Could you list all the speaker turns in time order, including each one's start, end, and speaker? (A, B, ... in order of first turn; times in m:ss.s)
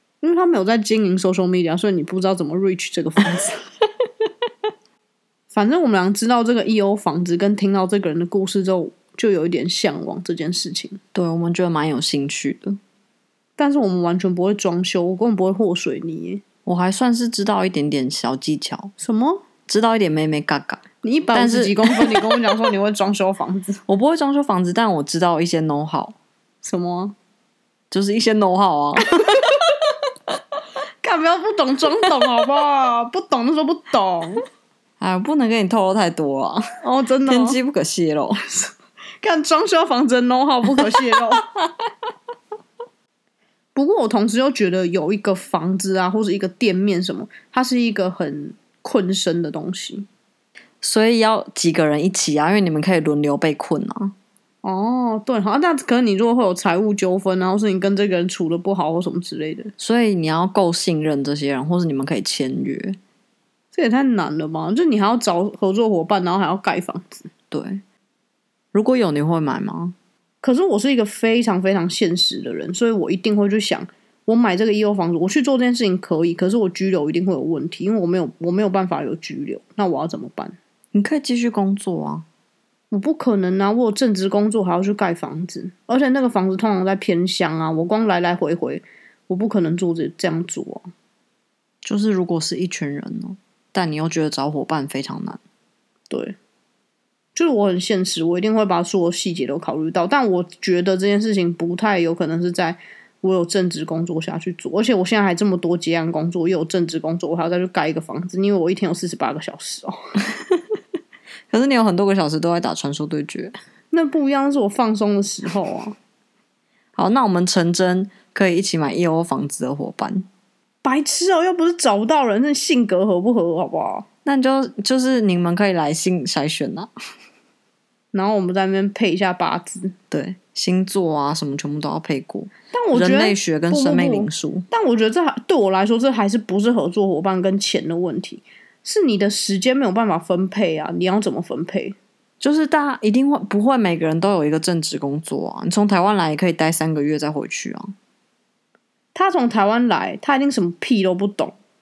0:00.2-0:03.6 A
0:05.5-0:11.0 A
0:11.1-0:12.8 B
0:13.6-0:16.4 A
0:16.6-0:18.9 B
0:19.0-0:19.4 A
0:19.7-0:22.2 B
0:21.0-0:23.8 A
0:23.9-0:26.2 B
0:26.6-0:27.1 A
0:27.9-0:29.4 B
0:31.0-0:34.4 A
0:35.0-0:36.6 B
0:36.8-0:37.6 A
0:37.2-0:38.4 B
0:39.2-0:41.5 A
0:43.7-0:50.1 A
0:50.8-0:54.1 B
0:54.6-0:59.7 A
0:59.8-1:03.0 B
1:03.7-1:07.3 A
1:07.5-1:07.8 B
1:08.7-1:09.9 B
1:10.4-1:20.6 A
1:20.9-1:22.2 B
1:22.9-1:30.9 A
1:31.8-1:35.4 B
1:36.1-1:36.4 A
1:37.3-1:50.0 A
1:51.5-1:53.5 B
1:53.9-1:56.0 A
1:57.0-2:00.3 B
2:00.8-2:04.0 A
2:04.2-2:06.9 B
2:08.1-2:09.9 A
2:10.1-2:14.7 B
2:12.7-2:22.0 A
2:22.4-2:27.9 B
2:29.1-2:31.6 A